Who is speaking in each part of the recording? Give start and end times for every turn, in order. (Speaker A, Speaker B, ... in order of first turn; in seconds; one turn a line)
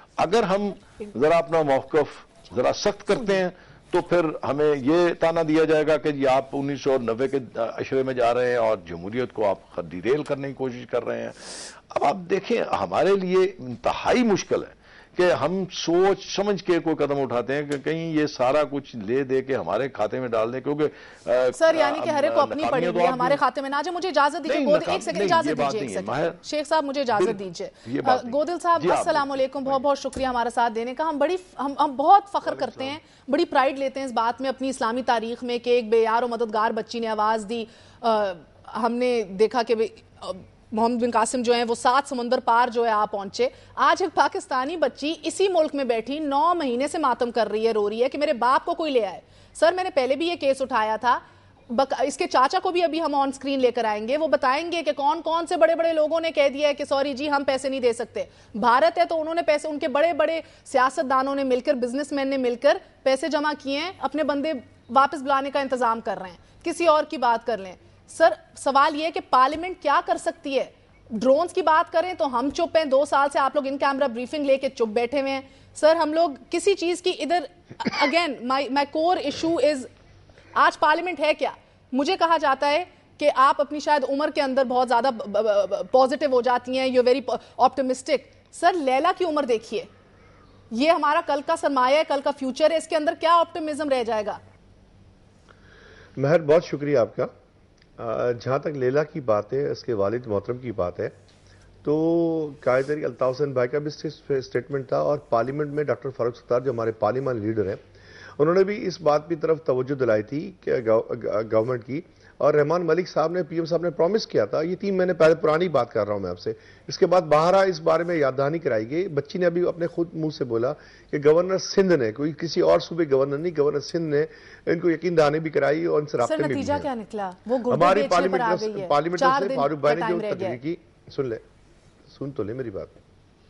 Speaker A: 0.2-23.4
Speaker B: 21.6-79.9
Speaker A: 24.5-26.4
Speaker A: 27.1-29.8
Speaker C: 32.5-33.0
Speaker B: 80.5-89.9
Speaker B: 90.7-94.4
Speaker C: 96.2-97.3
Speaker C: 98.0-101.1
Speaker C: 101.8-107.8
Speaker C: 108.4-126.9
Speaker B: 126.2-130.6
Speaker C: 127.7-131.4
Speaker C: 132.1-133.0